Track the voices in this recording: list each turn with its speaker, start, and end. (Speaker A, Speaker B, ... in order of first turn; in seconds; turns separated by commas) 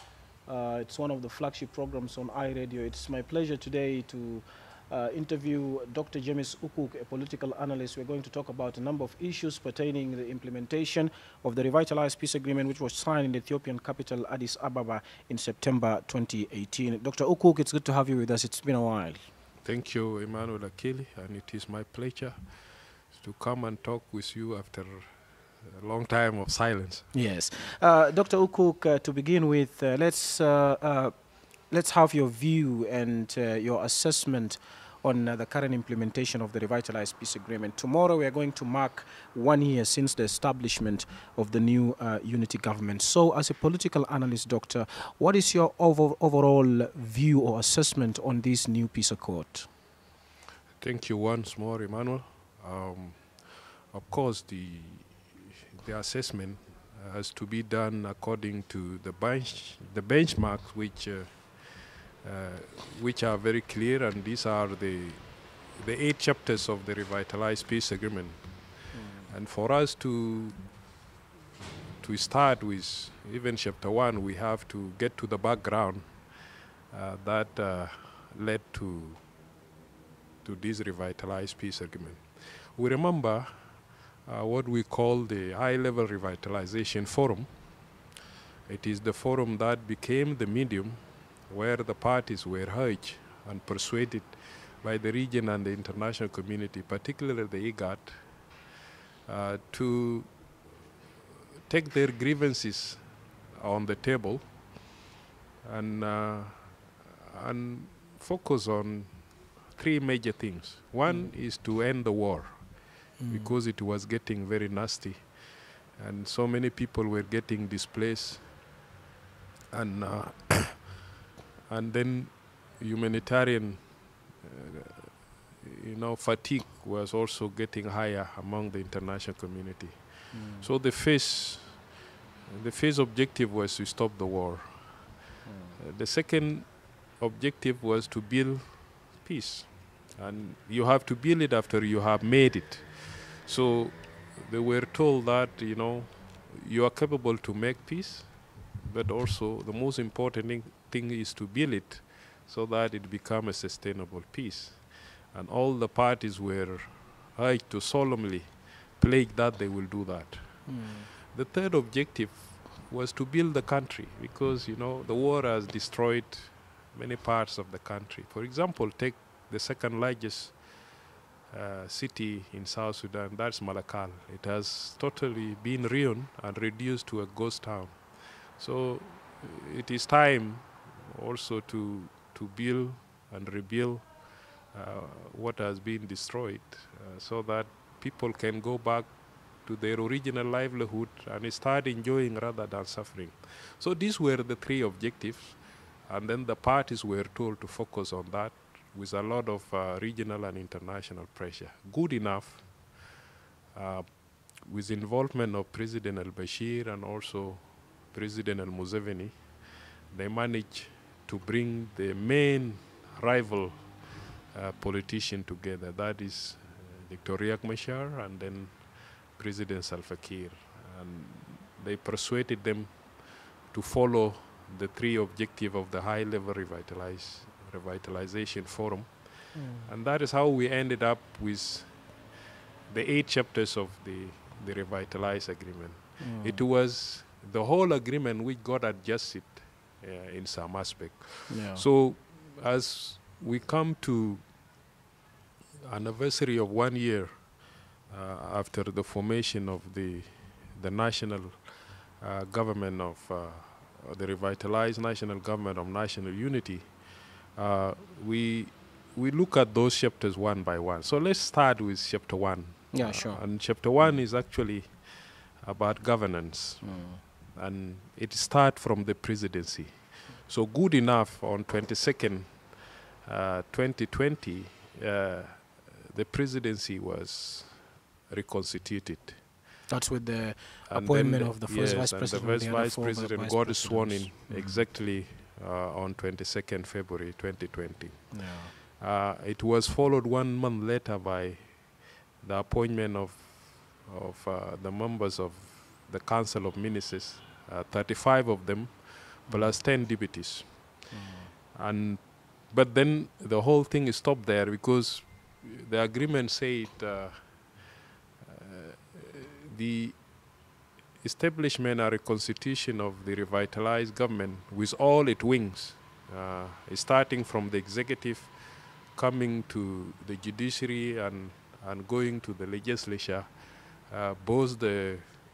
Speaker A: 0.5-19.2, Speaker B: 19.6-22.4, Speaker B: 23.1-27.1, Speaker A: 27.1-31.1, Speaker A: 31.7-49.7, Speaker B: 50.8-53.3, Speaker B: 53.9-65.2, Speaker B: 65.8-68.4, Speaker A: 68.9-69.3, Speaker B: 69.3-70.6, Speaker B: 72.0-76.1, Speaker B: 76.9-79.2, Speaker B: 80.4-83.5, Speaker B: 84.2-87.5, Speaker B: 88.7-98.2, Speaker B: 99.3-100.3, Speaker B: 101.7-103.0, Speaker B: 103.5-104.5, Speaker B: 105.6-109.2, Speaker B: 109.8-112.6, Speaker A: 111.1-111.3, Speaker A: 113.2-113.5, Speaker B: 113.3-115.3, Speaker B: 116.0-118.5, Speaker B: 119.7-121.0, Speaker B: 121.7-123.8, Speaker B: 124.4-131.9, Speaker A: 130.3-130.7, Speaker B: 132.5-134.8, Speaker A: 135.4-135.8, Speaker B: 135.8-170.6, Speaker A: 160.7-161.1, Speaker B: 171.5-184.1, Speaker B: 184.7-189.1, Speaker B: 189.7-202.7, Speaker B: 203.7-204.1, Speaker B: 204.6-209.3, Speaker B: 210.1-213.8, Speaker B: 214.5-218.8, Speaker B: 219.4-223.1, Speaker B: 223.7-229.1, Speaker A: 229.6-229.9, Speaker B: 229.9-231.9, Speaker B: 232.9-244.4, Speaker A: 236.2-236.6, Speaker A: 241.5-241.8, Speaker B: 245.8-247.4, Speaker B: 248.1-256.9, Speaker B: 257.6-264.9, Speaker A: 262.9-263.4, Speaker B: 265.6-266.9, Speaker A: 266.8-267.2, Speaker B: 267.6-272.7, Speaker B: 273.2-279.4, Speaker A: 279.9-284.8, Speaker B: 280.9-291.8, Speaker A: 288.3-288.7, Speaker B: 292.4-300.9, Speaker A: 299.5-299.8, Speaker A: 301.1-301.5, Speaker B: 301.8-307.5, Speaker B: 308.4-310.2, Speaker B: 311.2-318.5, Speaker B: 319.1-323.5, Speaker B: 324.1-325.3